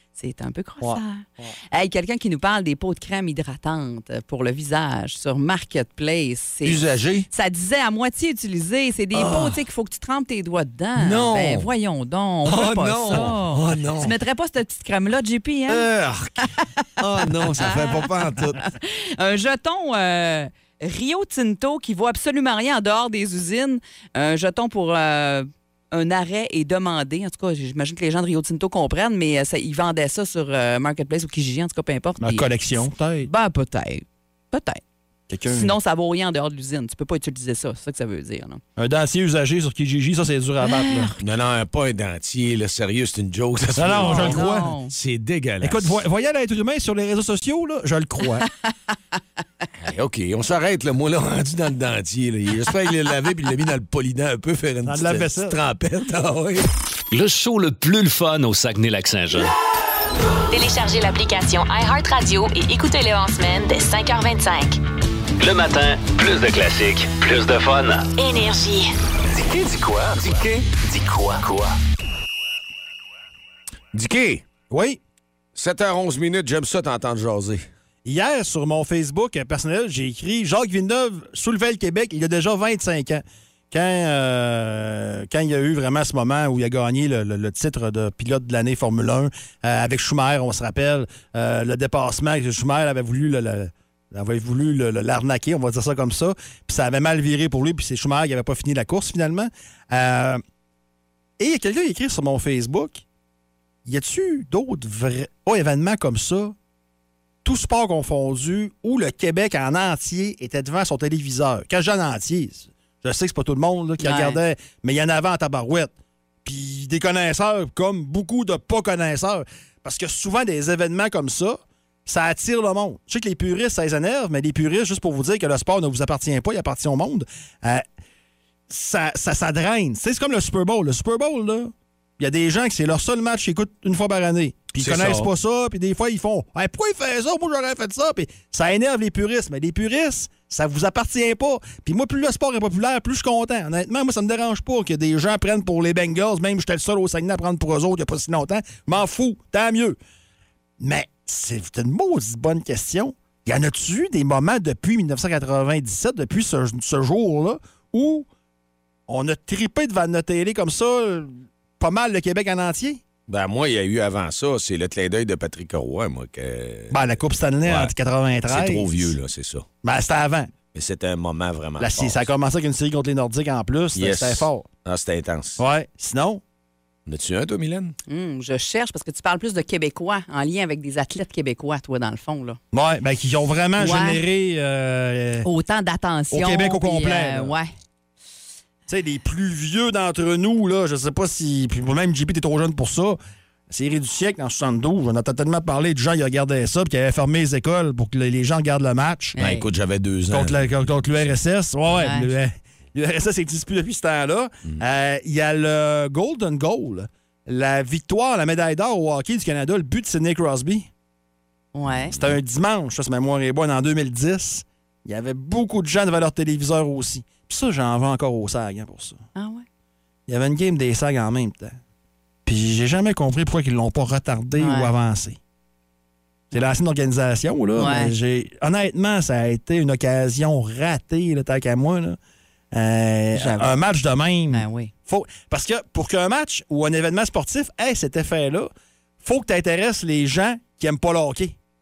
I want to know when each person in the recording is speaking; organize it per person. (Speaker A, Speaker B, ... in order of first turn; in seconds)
Speaker A: 0.2-15.8, 16.6-16.8, 17.6-34.8, 35.5-38.6, 40.6-41.2, 44.0-44.9, 114.0-114.4, 178.1-182.6, 183.8-184.2, 185.4-187.7, 199.3-199.6, 202.0-202.3, 211.7-212.1, 219.3-219.6, 224.6-224.9, 227.8-228.1, 233.3-233.7, 234.5-234.9
Speaker B: 0.8-1.5, 32.2-33.3, 35.3-35.7, 38.8-41.1, 43.8-44.7, 45.6-48.5, 54.8-55.6, 74.7-75.0, 78.0-100.4, 101.4-103.0, 103.8-106.5, 107.4-115.9, 116.4-127.8, 128.7-150.0, 150.8-158.3, 159.1-163.0, 166.9-169.1, 169.8-170.5, 171.8-174.7, 175.6-176.4, 182.7-185.5, 186.3-187.5, 188.9-193.2, 193.7-199.3, 200.3-210.9, 212.1-219.2, 220.3-221.8, 222.4-225.4, 226.5-232.2, 232.7-241.5
Speaker C: 6.6-7.3, 9.1-9.6, 11.0-11.7, 12.4-14.1, 15.7-18.6, 41.2-46.0, 49.8-56.7, 73.9-74.4, 75.5-77.7, 134.8-135.3, 163.3-167.0, 167.6-167.9, 168.5-169.7, 170.7-172.3, 173.9-175.6, 177.1-177.9, 199.4-201.3
Speaker D: 57.1-59.5, 65.4-68.1, 69.3-71.7
Speaker E: 60.5-64.8, 68.2-68.9